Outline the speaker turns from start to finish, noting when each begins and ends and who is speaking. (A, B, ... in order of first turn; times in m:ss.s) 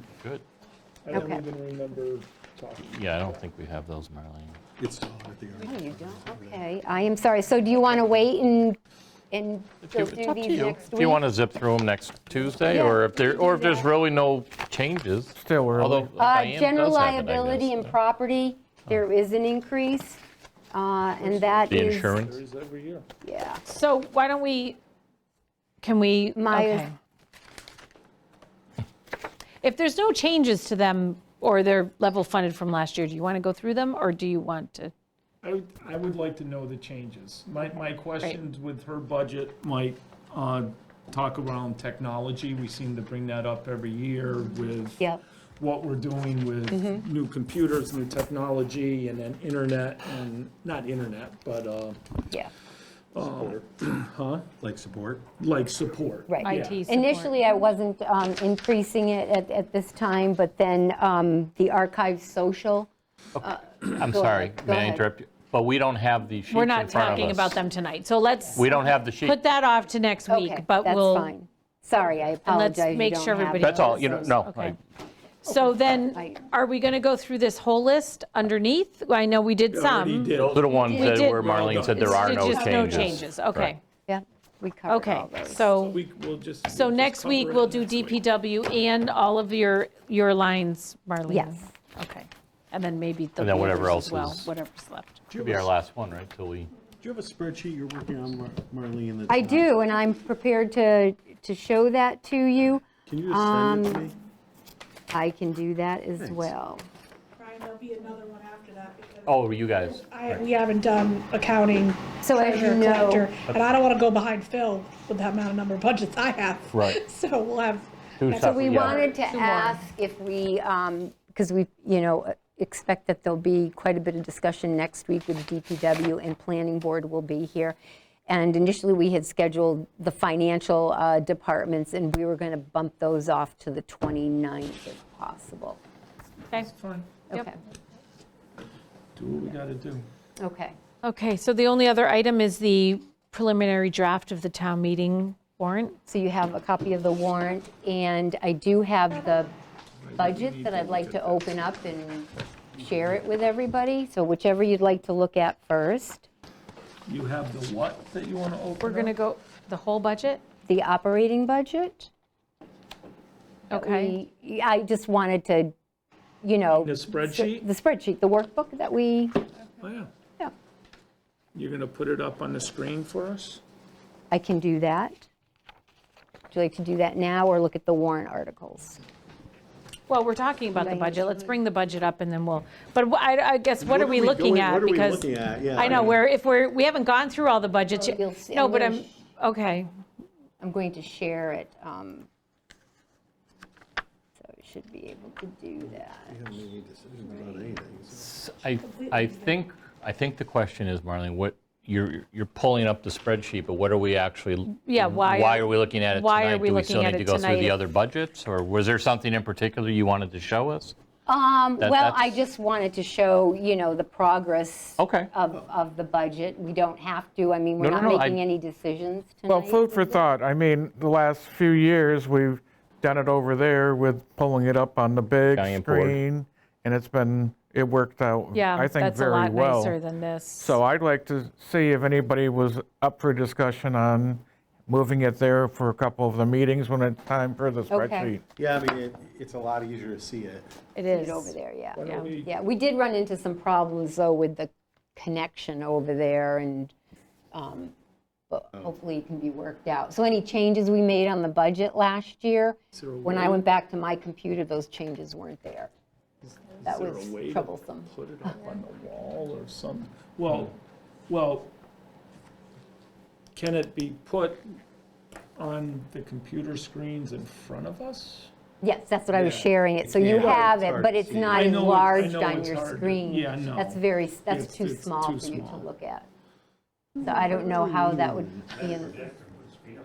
0:01.0-0:03.5 A
0:01.1-0:01.4 B
0:02.8-0:04.6 C
0:04.8-0:06.6 D
0:05.6-0:08.8 B
0:09.3-0:11.2 B
0:09.9-0:17.9 C
0:12.7-0:13.9 B
0:15.4-0:16.1 E
0:16.2-0:20.2 B
0:20.7-0:22.2 B
0:21.2-0:23.1 A
0:21.7-0:22.4 C
0:23.2-0:23.6 B
0:23.7-0:24.8 F
0:25.8-0:26.9 F
0:26.4-0:26.9 B
0:29.6-0:34.9 F
0:35.4-0:45.1 A
0:45.6-0:52.2 A
0:46.7-0:47.0 B
0:53.2-0:54.5 A
0:53.2-0:53.6 D
0:54.6-0:55.3 D
0:55.4-0:56.8 A
0:56.3-1:02.9 B
0:56.4-0:57.4 F
1:03.4-1:05.1 B
1:04.0-1:07.6 C
1:06.5-1:11.3 F
1:08.5-1:09.4 C
1:10.3-1:14.4 B
1:12.4-1:14.8 F
1:13.6-1:14.8 C
1:15.4-1:20.3 F
1:16.1-1:16.4 B
1:19.7-1:22.4 A
1:20.3-1:23.7 C
1:20.9-1:23.8 F
1:21.9-1:22.7 B
1:22.4-1:23.1 G
1:24.1-1:25.7 B
1:24.9-1:26.0 F
1:25.7-1:28.2 A
1:26.7-1:35.2 F
1:31.3-1:31.7 B
1:33.4-1:34.5 C
1:35.3-1:36.7 C
1:35.3-1:35.7 A
1:37.0-1:39.7 D
1:39.3-1:44.1 B
1:43.1-1:44.2 D
1:45.1-1:46.9 B
1:46.2-1:46.5 D
1:47.4-1:58.7 G
1:49.2-1:50.5 C
1:52.2-1:53.3 B
1:53.4-1:53.8 C
1:56.7-1:57.0 C
1:58.2-1:59.1 C
1:58.4-2:07.8 B
1:59.2-1:59.8 F
2:08.3-2:15.8 B
2:16.6-2:17.2 A
2:17.3-2:17.6 B
2:19.2-2:20.1 A
2:20.4-2:20.8 B
2:21.0-2:26.0 F
2:26.1-2:29.5 B
2:30.0-2:31.7 A
2:30.2-2:36.3 B
2:37.1-2:39.2 A
2:38.8-2:40.4 F
2:40.7-2:42.1 B
2:43.7-2:44.2 F
2:43.7-2:45.7 B
2:46.4-2:49.4 B
2:46.7-2:47.7 A
2:49.8-2:50.1 A
2:51.6-2:53.6 A
2:54.3-2:55.3 B
2:56.5-2:59.0 B
3:00.1-3:09.9 F
3:00.7-3:01.6 B
3:03.8-3:06.2 D
3:07.9-3:09.1 B
3:10.6-3:12.3 B
3:14.4-3:16.5 B
3:15.8-3:18.3 D
3:17.3-3:17.6 B
3:18.2-3:31.0 C
3:18.8-3:19.6 G
3:24.8-3:27.8 F
3:31.3-3:40.2 B
3:31.8-3:32.3 C
3:35.0-3:35.3 C
3:37.8-3:38.4 C
3:39.5-3:50.0 E
3:45.5-3:46.2 C
3:48.5-3:50.8 F
3:50.6-3:58.4 E
3:57.9-3:58.3 B
3:58.6-4:00.7 D
4:01.0-4:02.3 F
4:01.0-4:06.9 B
4:01.9-4:02.6 A
4:07.5-4:07.9 B
4:08.5-4:15.9 B
4:12.9-4:13.6 A
4:16.5-4:20.8 A
4:16.8-4:18.1 B
4:21.3-4:21.7 A
4:23.6-4:24.7 A
4:25.6-4:28.5 A
4:28.8-4:36.3 B
4:29.3-4:29.7 A
4:30.0-4:31.7 D
4:31.5-4:35.9 A
4:37.2-4:39.3 B
4:37.5-4:38.8 D